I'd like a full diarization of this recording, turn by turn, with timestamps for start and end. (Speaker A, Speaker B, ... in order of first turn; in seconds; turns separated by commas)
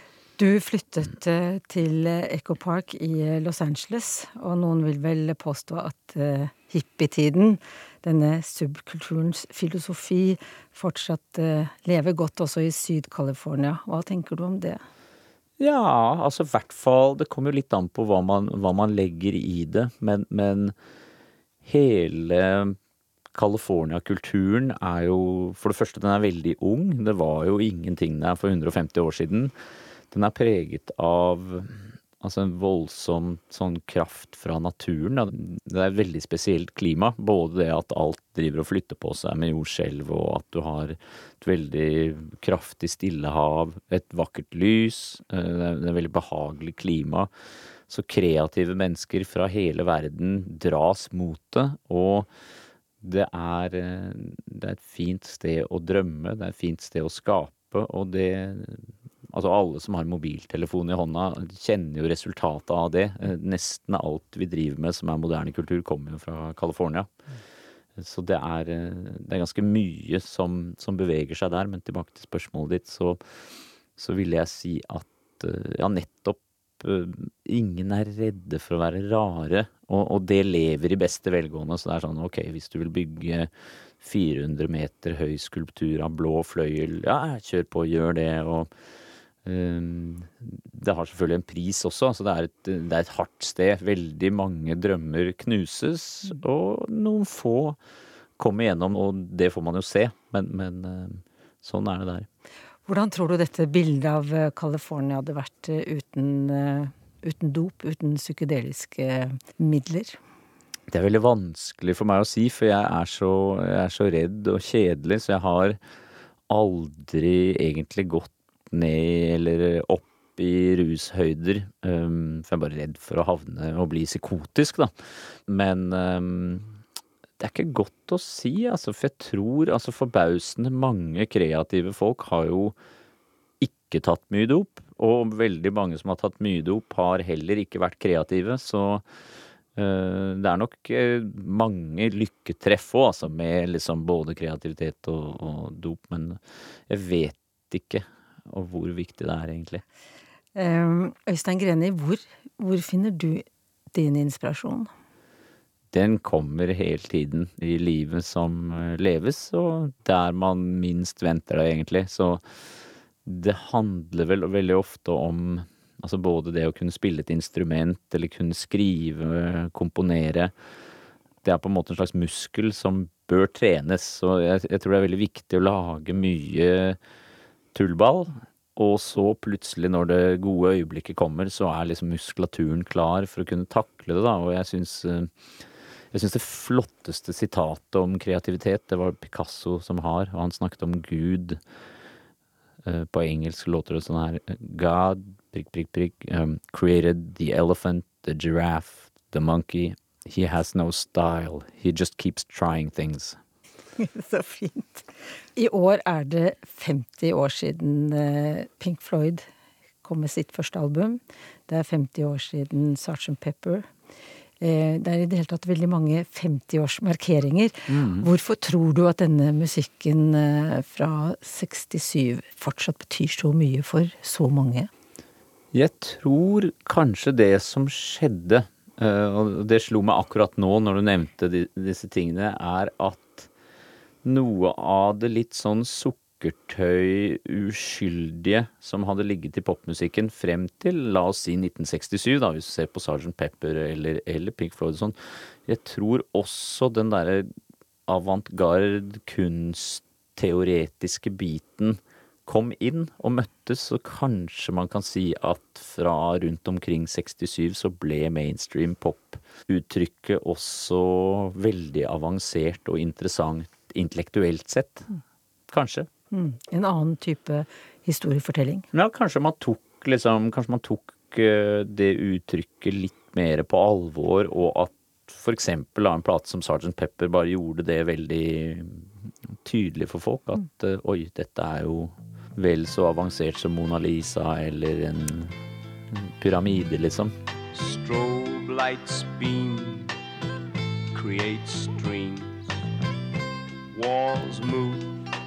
Speaker A: 0.4-14.8, Speaker B: 15.6-20.7, Speaker B: 21.6-22.8, Speaker B: 23.3-29.5, Speaker B: 30.1-47.3, Speaker B: 47.9-52.3, Speaker B: 53.0-67.2, Speaker B: 68.0-73.2, Speaker B: 74.0-88.7, Speaker B: 89.4-97.8, Speaker B: 98.4-102.3, Speaker A: 102.9-110.2, Speaker B: 110.9-115.8, Speaker B: 116.5-124.9, Speaker B: 125.5-126.8, Speaker B: 127.4-132.8, Speaker B: 133.6-139.1, Speaker B: 139.8-149.8, Speaker A: 150.6-154.9, Speaker B: 155.9-162.4, Speaker B: 163.3-170.5, Speaker B: 171.4-177.0, Speaker B: 177.7-185.3, Speaker B: 186.1-191.6, Speaker B: 192.8-203.4, Speaker A: 204.0-209.5, Speaker A: 210.0-213.9, Speaker A: 214.6-224.9, Speaker B: 217.9-218.3, Speaker B: 225.7-233.5, Speaker B: 234.2-247.5, Speaker B: 248.1-265.1, Speaker B: 265.7-266.1, Speaker A: 266.3-268.9, Speaker B: 268.9-285.6, Speaker B: 286.1-287.4, Speaker C: 287.7-290.2, Speaker C: 291.1-292.6, Speaker C: 293.9-295.2